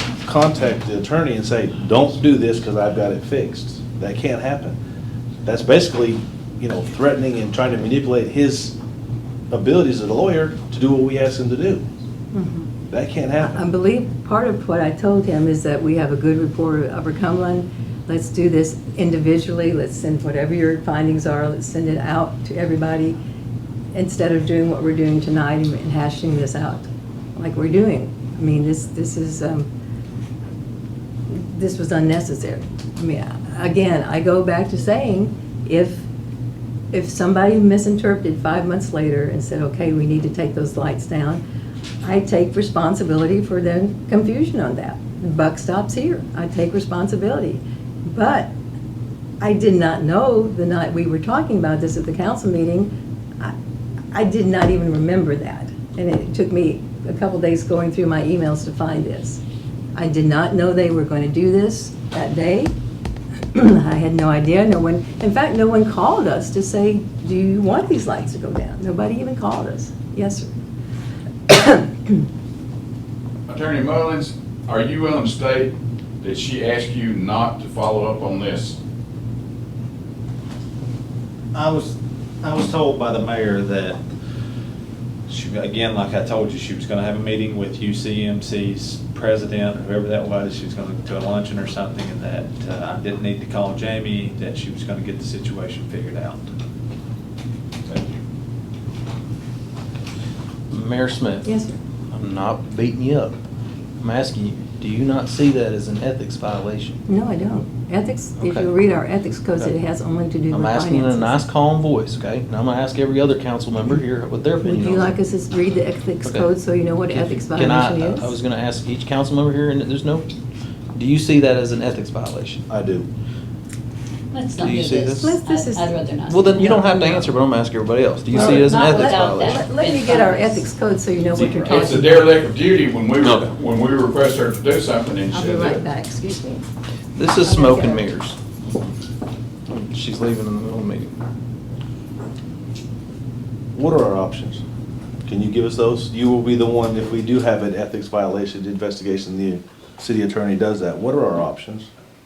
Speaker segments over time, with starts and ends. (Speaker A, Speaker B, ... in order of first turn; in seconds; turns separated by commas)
Speaker A: 0.2-4.8, Speaker A: 5.5-8.8, Speaker A: 9.5-11.8, Speaker B: 12.3-12.7, Speaker A: 12.9-13.6, Speaker B: 13.4-23.2, Speaker B: 23.9-29.7, Speaker B: 31.3-36.0, Speaker B: 36.9-41.4, Speaker B: 42.0-48.5, Speaker B: 49.4-53.5, Speaker B: 54.1-59.4, Speaker B: 60.0-62.7, Speaker B: 63.5-70.5, Speaker B: 71.5-72.2, Speaker C: 73.5-78.8, Speaker D: 81.5-84.0, Speaker D: 85.3-96.4, Speaker E: 100.7-101.5, Speaker B: 101.4-101.8, Speaker E: 102.1-103.4, Speaker E: 104.0-107.0, Speaker B: 107.1-111.4, Speaker E: 108.4-108.7, Speaker E: 110.5-115.2, Speaker B: 114.6-118.4, Speaker E: 116.2-116.5, Speaker E: 117.1-120.3, Speaker E: 121.0-122.6, Speaker A: 122.7-123.1, Speaker F: 124.3-127.1, Speaker E: 124.6-125.4, Speaker B: 125.2-125.9, Speaker E: 126.3-129.6, Speaker B: 126.6-127.3, Speaker B: 128.3-132.2, Speaker F: 128.3-130.7, Speaker C: 131.6-135.8, Speaker B: 135.3-136.7, Speaker E: 137.2-138.4, Speaker B: 137.4-138.0, Speaker E: 139.7-141.1, Speaker A: 143.7-144.6, Speaker A: 145.2-151.9